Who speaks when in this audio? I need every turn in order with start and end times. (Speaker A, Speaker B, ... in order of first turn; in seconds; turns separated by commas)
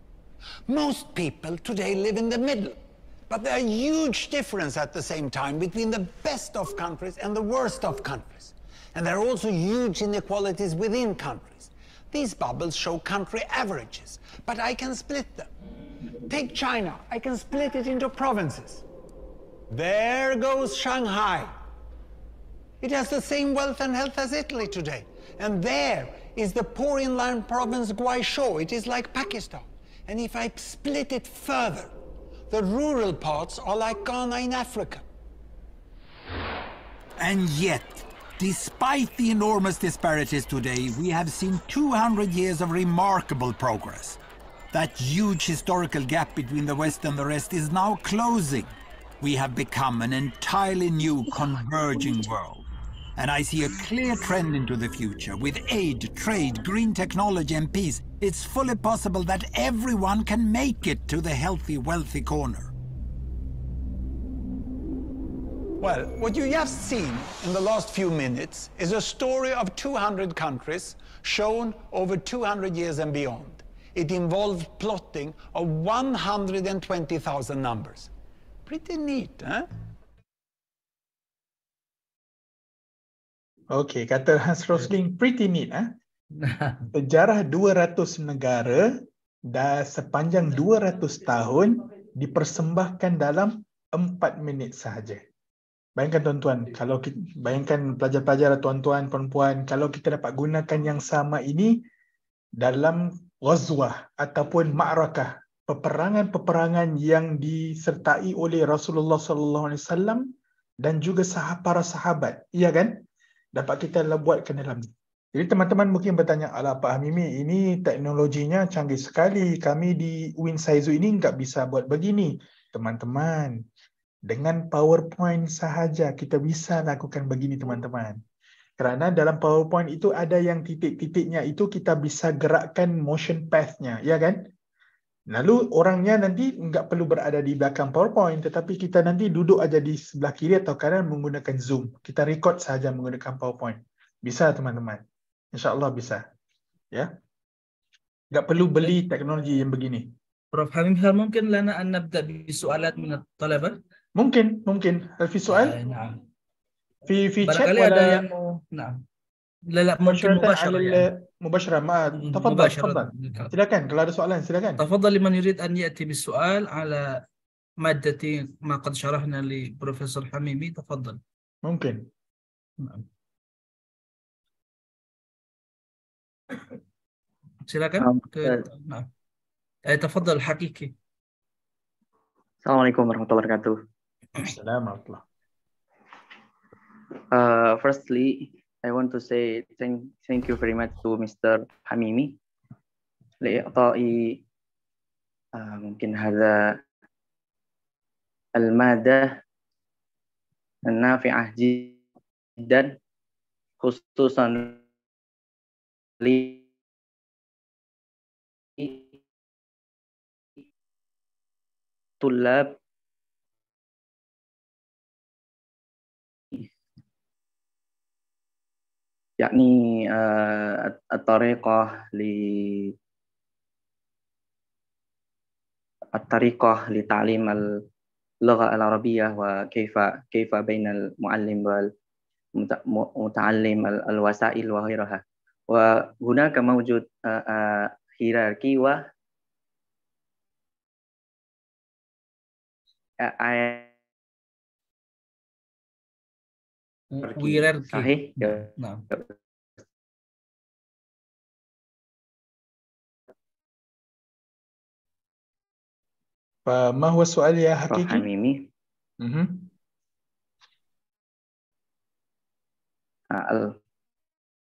Speaker A: 0.7-2.8, Speaker A: 3.3-15.5, Speaker A: 16.3-18.9, Speaker A: 19.7-21.5, Speaker A: 22.8-31.9, Speaker A: 32.5-35.0, Speaker A: 37.2-44.2, Speaker A: 44.7-62.7, Speaker A: 65.8-78.1, Speaker A: 78.7-79.7, Speaker B: 83.7-85.9, Speaker C: 86.4-86.8, Speaker B: 86.9-88.8, Speaker B: 89.5-95.2, Speaker B: 96.0-101.8, Speaker B: 102.6-110.3, Speaker B: 110.8-112.9, Speaker B: 113.5-123.5, Speaker B: 124.3-128.2, Speaker B: 128.8-134.4, Speaker B: 135.3-145.0, Speaker B: 145.5-146.2, Speaker B: 148.3-150.1, Speaker C: 150.5-153.8, Speaker B: 154.2-155.8, Speaker C: 155.5-156.2, Speaker B: 157.1-158.3, Speaker C: 157.4-159.0, Speaker C: 159.7-161.0, Speaker B: 160.1-164.8, Speaker C: 162.2-163.5, Speaker C: 164.8-167.2, Speaker C: 167.8-171.2, Speaker B: 171.7-172.1, Speaker C: 177.7-179.1, Speaker D: 178.0-178.6, Speaker C: 179.9-180.9, Speaker D: 182.6-183.8, Speaker B: 184.4-185.2, Speaker D: 187.3-192.4, Speaker D: 193.4-194.4, Speaker D: 195.5-196.8, Speaker D: 198.6-199.3, Speaker D: 200.8-202.0, Speaker D: 202.6-202.9, Speaker D: 203.8-204.8, Speaker D: 206.2-206.6, Speaker D: 208.8-209.0, Speaker D: 212.2-212.8, Speaker D: 219.4-222.9, Speaker D: 226.2-227.6, Speaker D: 228.4-231.8, Speaker D: 232.6-239.0, Speaker D: 243.2-243.9, Speaker C: 247.2-249.0, Speaker D: 247.2-248.6, Speaker B: 256.7-258.2, Speaker D: 257.9-258.7, Speaker B: 259.2-259.7, Speaker D: 263.3-263.8